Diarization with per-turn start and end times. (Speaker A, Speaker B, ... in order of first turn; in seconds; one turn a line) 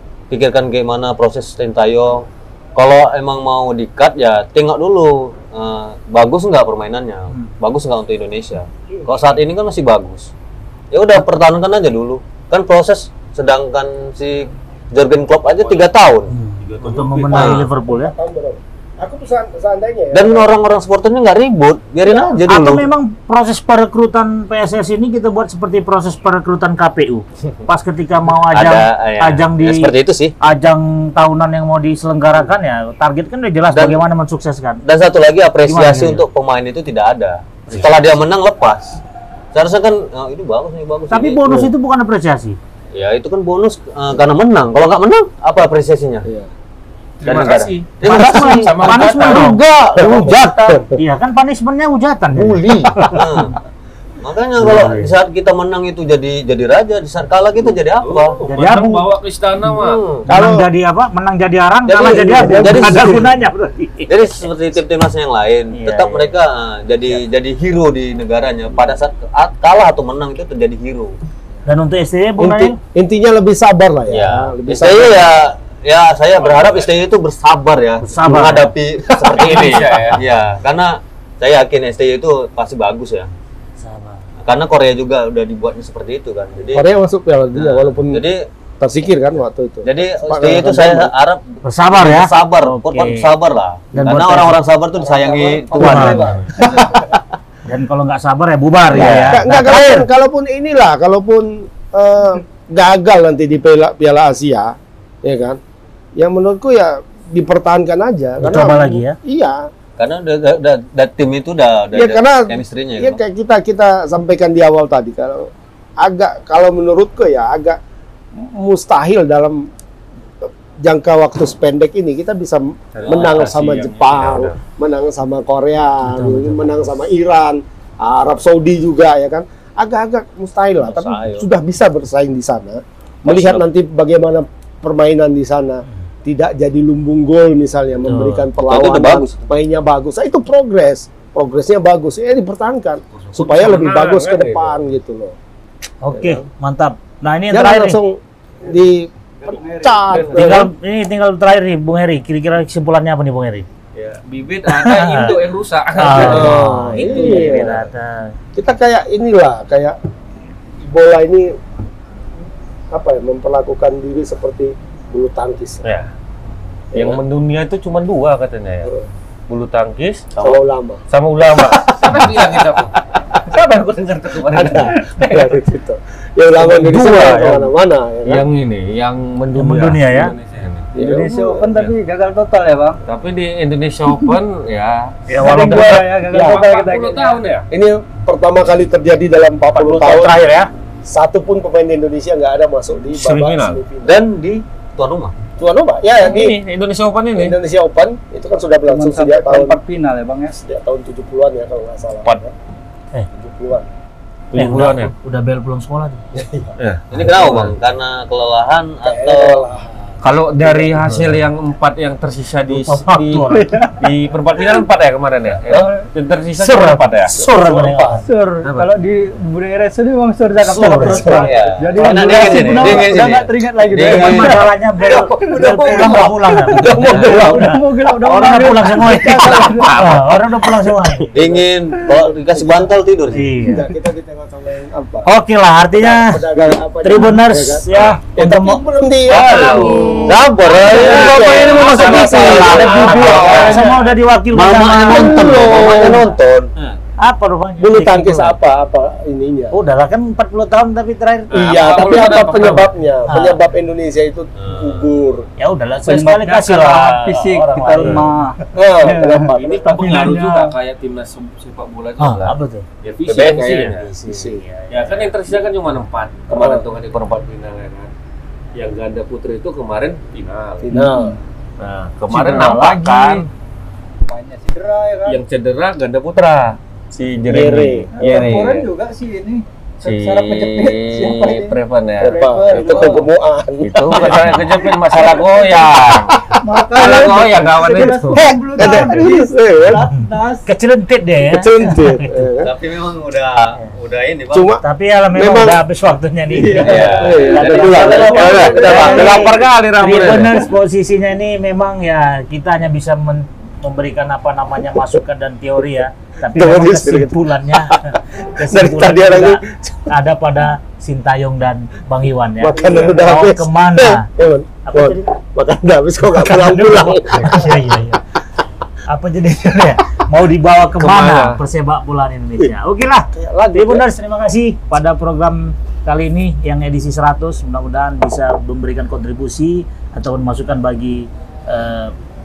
Speaker A: 0.3-10.3
Speaker A: 10.9-17.7
Speaker B: 16.3-18.1
Speaker C: 16.7-17.6
Speaker D: 17.3-20.5
Speaker A: 20.1-22.9
Speaker B: 22.4-34.8
Speaker A: 28.5-30.4
Speaker A: 33.7-34.0
Speaker A: 34.9-39.0
Speaker B: 35.6-36.2
Speaker B: 37.7-38.1
Speaker A: 39.5-41.6
Speaker B: 41.1-42.6
Speaker A: 42.9-46.2
Speaker D: 46.2-46.5
Speaker C: 47.2-49.6
Speaker A: 47.2-50.8
Speaker B: 48.0-53.3
Speaker D: 49.9-50.9
Speaker D: 52.4-53.2
Speaker A: 53.1-53.6
Speaker A: 54.2-58.4
Speaker C: 58.0-60.0
Speaker B: 58.5-59.1
Speaker A: 59.7-60.2
Speaker D: 60.3-60.7
Speaker B: 60.3-64.1
Speaker A: 61.9-63.3
Speaker D: 62.0-63.3
Speaker A: 64.1-71.2
Speaker B: 65.8-66.4
Speaker B: 71.7-72.8
Speaker D: 72.4-75.3
Speaker A: 74.1-83.3
Speaker B: 78.0-78.7
Speaker D: 79.1-80.0
Speaker C: 79.5-80.2
Speaker B: 83.8-84.3
Speaker A: 84.4-86.9
Speaker D: 86.7-88.3
Speaker A: 87.5-88.5
Speaker D: 88.8-91.1
Speaker A: 89.8-96.5
Speaker B: 91.6-93.3
Speaker B: 94.0-94.6
Speaker E: 95.0-96.8
Speaker D: 95.6-97.2
Speaker B: 95.8-96.2
Speaker B: 97.7-100.1
Speaker D: 98.9-105.6
Speaker A: 99.0-99.4
Speaker D: 106.2-109.7
Speaker B: 108.4-109.2
Speaker A: 110.0-113.2
Speaker D: 112.0-115.5
Speaker D: 116.0-117.8
Speaker D: 118.4-119.7
Speaker D: 120.4-145.4
Speaker C: 123.0-124.6
Speaker A: 123.0-123.5
Speaker B: 126.0-126.6
Speaker C: 130.9-131.4
Speaker A: 133.3-133.6
Speaker B: 138.1-138.5
Speaker A: 138.6-139.4
Speaker A: 143.1-143.8
Speaker C: 143.4-144.8
Speaker B: 146.0-148.0
Speaker D: 146.1-146.4
Speaker D: 147.5-150.7
Speaker E: 149.4-150.4
Speaker C: 150.1-150.7
Speaker B: 150.3-153.7
Speaker C: 153.9-157.6
Speaker B: 154.7-155.3
Speaker B: 156.0-158.3
Speaker D: 156.1-157.9
Speaker D: 158.6-159.9
Speaker D: 160.8-161.6
Speaker D: 162.9-165.8
Speaker C: 165.8-166.1
Speaker D: 166.9-167.2
Speaker C: 166.9-168.9
Speaker C: 169.5-170.3
Speaker D: 170.4-173.4
Speaker C: 171.1-175.6
Speaker D: 174.4-178.4
Speaker C: 176.6-177.7
Speaker C: 178.2-181.9
Speaker B: 179.6-180.4
Speaker D: 180.9-181.7
Speaker E: 180.9-183.0
Speaker C: 183.1-187.7
Speaker B: 185.3-186.1
Speaker E: 185.4-187.4
Speaker D: 186.3-186.6
Speaker D: 187.7-190.4
Speaker B: 189.8-190.7
Speaker D: 191.1-194.2
Speaker C: 193.1-193.8
Speaker A: 194.0-195.3
Speaker D: 195.6-196.6
Speaker C: 196.2-197.6
Speaker D: 197.3-199.8
Speaker E: 198.9-200.6
Speaker D: 200.6-202.5
Speaker D: 203.3-203.9
Speaker C: 204.5-205.1
Speaker B: 204.5-206.2
Speaker D: 206.3-206.7
Speaker C: 206.8-207.8
Speaker A: 207.1-209.7
Speaker D: 209.0-211.2
Speaker C: 210.2-217.4
Speaker B: 211.0-211.4
Speaker B: 212.7-213.9
Speaker E: 213.6-214.0
Speaker E: 215.7-216.1
Speaker D: 216.7-218.2
Speaker B: 216.8-218.2
Speaker E: 218.2-230.0
Speaker C: 218.6-218.9
Speaker B: 220.6-221.5
Speaker D: 220.9-221.4
Speaker A: 221.3-224.7
Speaker C: 222.0-222.9
Speaker B: 222.5-223.3
Speaker B: 224.0-231.4
Speaker C: 225.5-226.3
Speaker D: 226.8-227.8
Speaker C: 226.9-227.4
Speaker D: 229.2-229.8
Speaker C: 229.3-230.4
Speaker A: 231.3-233.5
Speaker D: 231.4-232.9
Speaker B: 233.3-233.9
Speaker D: 233.6-235.3
Speaker B: 235.2-238.8
Speaker D: 235.9-243.9
Speaker C: 239.3-244.1
Speaker A: 239.3-243.9
Speaker B: 242.2-245.6
Speaker A: 244.5-246.7
Speaker D: 245.1-246.3
Speaker C: 245.5-246.2
Speaker B: 247.2-248.6
Speaker D: 247.8-249.8
Speaker B: 249.7-252.7
Speaker C: 251.5-252.9
Speaker D: 251.5-255.5
Speaker B: 253.3-253.6
Speaker A: 254.6-255.1
Speaker B: 255.6-258.3
Speaker E: 256.1-260.8
Speaker C: 258.0-258.3
Speaker D: 258.7-259.9
Speaker C: 259.6-264.1
Speaker B: 262.2-265.3
Speaker A: 263.3-263.7
Speaker D: 264.3-264.6
Speaker C: 264.9-268.1
Speaker D: 266.5-266.9
Speaker C: 268.7-270.9
Speaker D: 270.8-271.4
Speaker E: 271.0-271.4
Speaker C: 271.8-273.4
Speaker B: 272.3-273.5
Speaker E: 274.3-275.4
Speaker C: 275.3-278.9
Speaker D: 277.4-278.6
Speaker E: 278.1-283.2
Speaker C: 280.0-283.3
Speaker D: 282.2-284.7
Speaker C: 283.8-286.4
Speaker E: 284.1-285.7
Speaker D: 285.8-287.2
Speaker E: 286.6-290.7
Speaker C: 286.9-289.2
Speaker D: 288.3-290.0
Speaker B: 290.1-292.4
Speaker D: 291.5-292.7
Speaker A: 292.6-294.7
Speaker D: 294.5-294.8
Speaker B: 294.8-314.3
Speaker D: 295.3-295.8
Speaker E: 296.5-299.1
Speaker A: 296.8-299.3
Speaker D: 297.2-299.6
Speaker C: 298.3-300.7
Speaker D: 306.4-309.9
Speaker D: 312.6-318.0
Speaker B: 314.9-315.3
Speaker B: 316.2-318.2
Speaker B: 319.1-332.1
Speaker C: 321.0-321.6
Speaker D: 323.3-324.1